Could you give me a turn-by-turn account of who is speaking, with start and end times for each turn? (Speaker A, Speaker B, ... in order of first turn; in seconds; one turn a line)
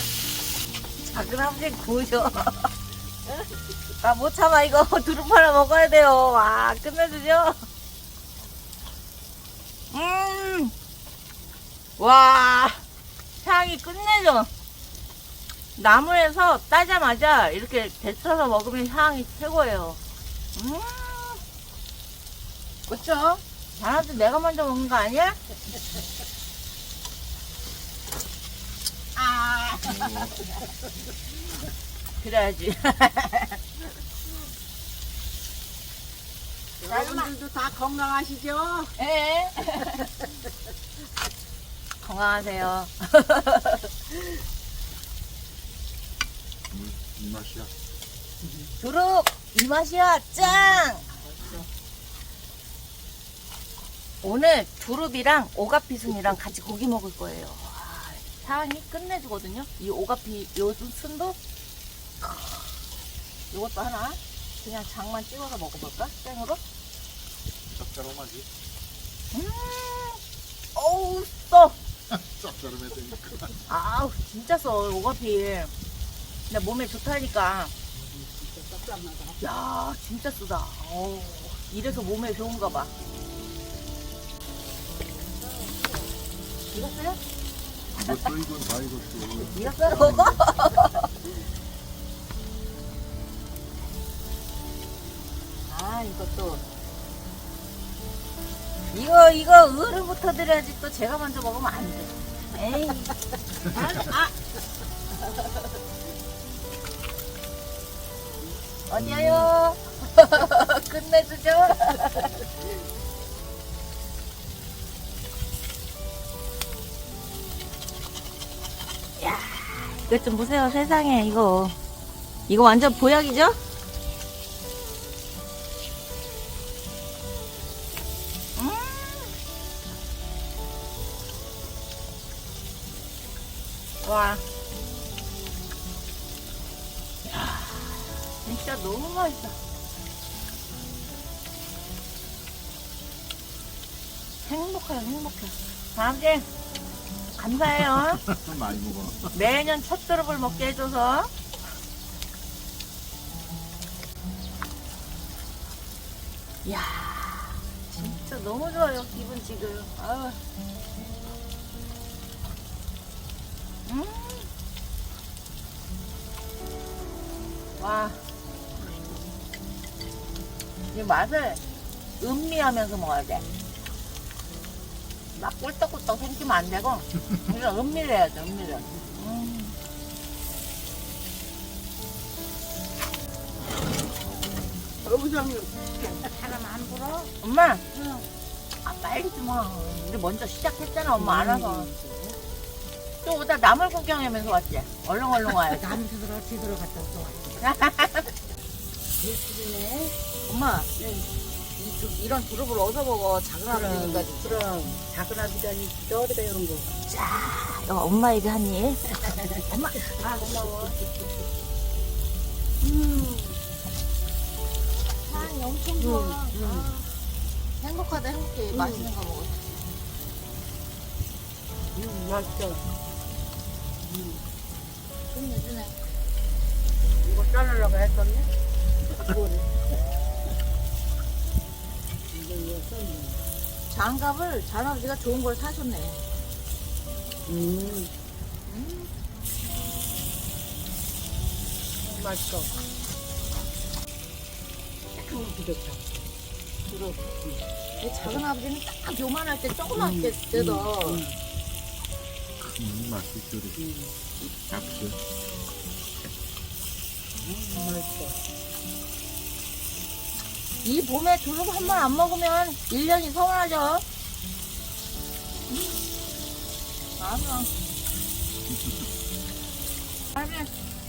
Speaker A: 1.1-2.7
Speaker A: 4.0-7.6
Speaker A: 9.9-10.7
Speaker A: 12.0-12.8
Speaker A: 13.4-14.5
Speaker A: 15.8-20.0
Speaker A: 20.6-21.4
Speaker A: 22.9-25.4
Speaker A: 29.2-30.4
Speaker B: 29.8-30.4
Speaker A: 32.2-33.6
Speaker C: 36.8-38.9
Speaker A: 36.9-37.3
Speaker A: 39.0-40.1
Speaker A: 42.0-44.1
Speaker B: 46.7-47.7
Speaker C: 48.4-48.7
Speaker A: 48.8-51.1
Speaker C: 50.6-51.7
Speaker A: 54.2-61.4
Speaker A: 62.2-62.5
Speaker A: 63.5-66.6
Speaker B: 67.7-68.5
Speaker A: 69.3-70.2
Speaker A: 70.8-71.8
Speaker B: 72.1-73.5
Speaker A: 73.7-75.7
Speaker A: 76.5-77.7
Speaker C: 78.0-79.4
Speaker A: 79.4-82.9
Speaker A: 86.7-87.2
Speaker B: 87.9-90.4
Speaker A: 89.5-91.1
Speaker A: 95.7-96.6
Speaker A: 98.9-103.2
Speaker A: 103.7-104.3
Speaker A: 108.9-112.5
Speaker B: 108.9-109.5
Speaker A: 119.2-121.8
Speaker A: 122.5-123.6
Speaker A: 128.6-129.3
Speaker A: 134.0-134.4
Speaker A: 137.2-139.6
Speaker A: 144.4-146.5
Speaker A: 147.3-148.2
Speaker B: 148.2-149.3
Speaker A: 149.3-151.3
Speaker A: 156.7-160.4
Speaker A: 163.9-164.5
Speaker A: 167.8-168.2
Speaker A: 170.9-171.6
Speaker A: 172.2-173.5
Speaker A: 175.3-179.8
Speaker C: 184.6-187.3
Speaker A: 187.3-187.8
Speaker C: 187.9-188.3
Speaker A: 188.8-191.9
Speaker C: 191.2-192.4
Speaker A: 193.2-196.0
Speaker C: 195.5-197.6
Speaker A: 197.6-198.3
Speaker C: 199.2-200.2
Speaker A: 200.5-200.9
Speaker C: 201.0-201.3
Speaker A: 201.8-204.6
Speaker C: 203.7-206.9
Speaker A: 207.1-210.2
Speaker C: 210.1-211.0
Speaker C: 212.8-213.5
Speaker A: 215.2-217.2
Speaker C: 216.0-216.9
Speaker A: 217.8-219.6
Speaker C: 218.7-219.1
Speaker C: 221.9-222.9
Speaker C: 224.1-224.5
Speaker A: 225.3-226.0
Speaker C: 227.2-228.5
Speaker C: 229.1-229.7
Speaker C: 232.3-233.5
Speaker A: 233.9-236.2
Speaker C: 237.5-238.1
Speaker A: 238.7-239.1
Speaker C: 242.0-242.8
Speaker C: 245.1-246.1
Speaker C: 246.9-247.6
Speaker A: 248.0-251.2
Speaker C: 249.9-251.4
Speaker B: 252.6-253.8
Speaker C: 253.8-254.1
Speaker B: 254.7-255.2
Speaker C: 257.4-258.4
Speaker A: 260.8-264.1
Speaker A: 265.7-266.0
Speaker A: 267.2-267.7
Speaker A: 270.4-270.7